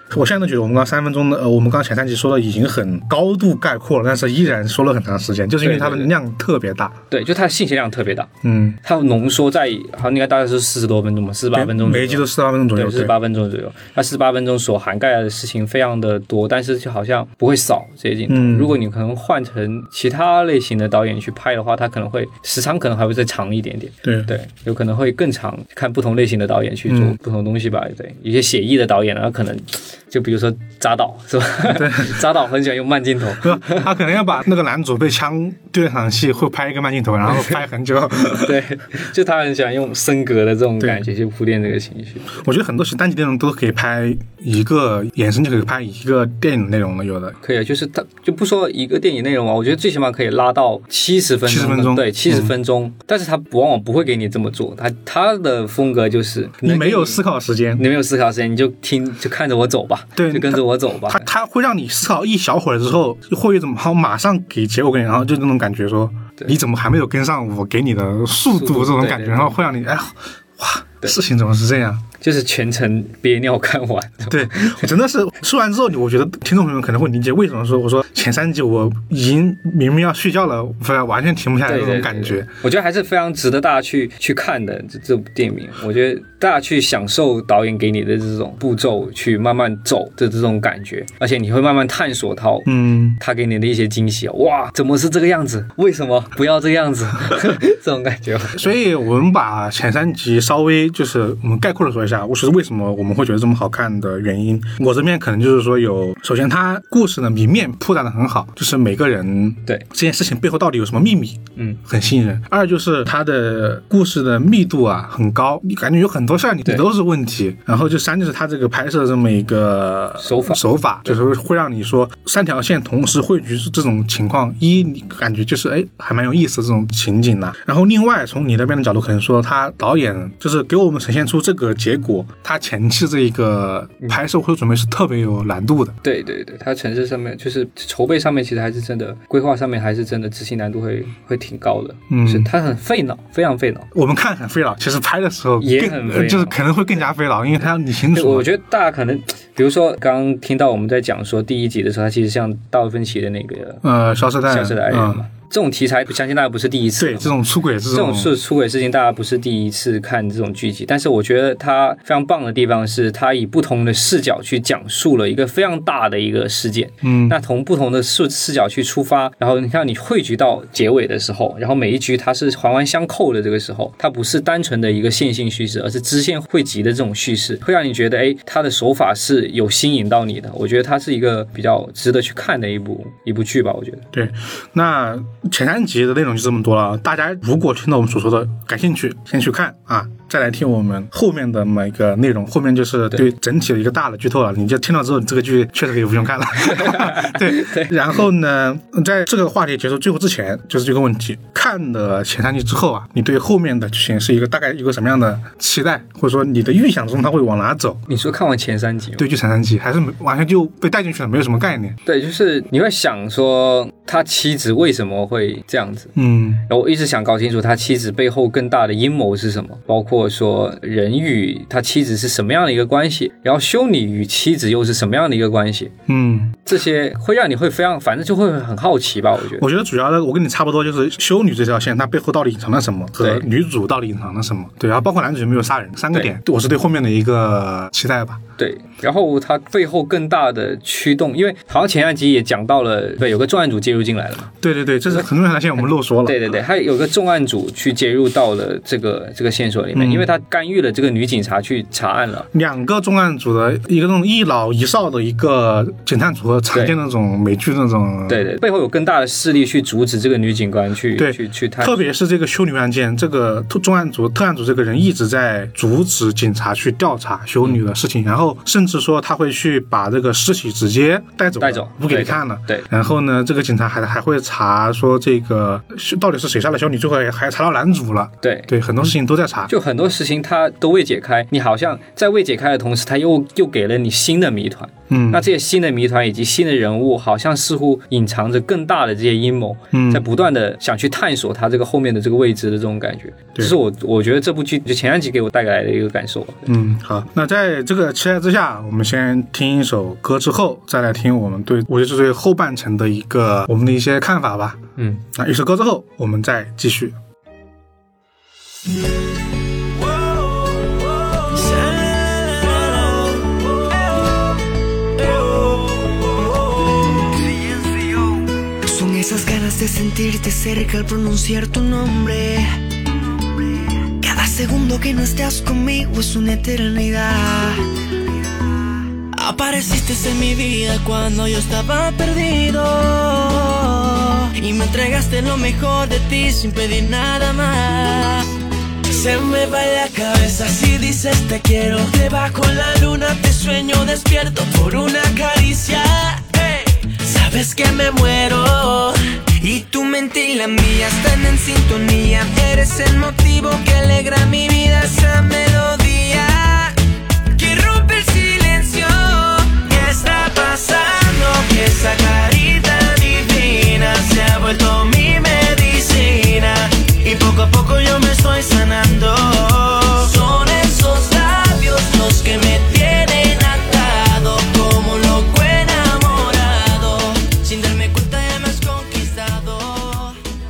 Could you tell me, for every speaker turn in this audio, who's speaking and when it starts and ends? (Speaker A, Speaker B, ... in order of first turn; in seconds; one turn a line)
Speaker A: 0.1-7.0
Speaker B: 5.6-6.1
Speaker B: 7.1-8.3
Speaker A: 8.4-8.8
Speaker B: 8.8-33.9
Speaker A: 11.5-13.2
Speaker A: 18.3-18.8
Speaker A: 24.0-24.3
Speaker A: 26.9-27.2
Speaker A: 31.7-32.2
Speaker A: 33.4-38.6
Speaker B: 37.3-37.6
Speaker B: 38.3-42.4
Speaker A: 40.8-41.0
Speaker A: 42.3-47.4
Speaker B: 47.4-57.2
Speaker A: 51.5-52.5
Speaker A: 56.6-57.8
Speaker B: 57.8-61.3
Speaker A: 60.2-72.0
Speaker B: 68.5-69.6
Speaker B: 72.2-74.9
Speaker A: 74.3-82.5
Speaker B: 81.7-98.7
Speaker A: 92.7-93.2
Speaker A: 98.5-136.0
Speaker B: 120.2-121.2
Speaker B: 136.0-143.9
Speaker A: 142.1-142.5
Speaker A: 143.9-148.5
Speaker B: 145.6-146.6
Speaker B: 148.1-153.8
Speaker A: 153.8-155.2
Speaker B: 154.4-157.4
Speaker A: 157.0-158.4
Speaker B: 157.9-184.0
Speaker A: 167.0-167.4
Speaker A: 184.1-208.0
Speaker B: 196.6-198.2
Speaker B: 208.1-209.3
Speaker A: 209.2-212.0
Speaker B: 212.1-216.1
Speaker A: 216.2-216.7
Speaker B: 216.7-225.9
Speaker A: 226.1-226.6
Speaker B: 226.7-229.7
Speaker A: 229.6-238.4
Speaker B: 233.2-233.5
Speaker B: 238.6-244.5
Speaker A: 244.6-246.5
Speaker B: 246.2-252.5
Speaker A: 249.9-250.3
Speaker A: 252.5-258.4
Speaker B: 258.3-262.1
Speaker A: 261.2-279.7
Speaker B: 271.6-272.9
Speaker B: 278.4-278.7
Speaker B: 279.7-296.7
Speaker A: 285.1-285.4
Speaker A: 289.9-290.3
Speaker A: 296.7-307.2
Speaker B: 305.0-305.2
Speaker C: 310.1-314.4
Speaker C: 315.2-322.9
Speaker C: 323.6-327.9
Speaker C: 329.4-338.5
Speaker C: 339.1-357.0
Speaker C: 357.6-380.4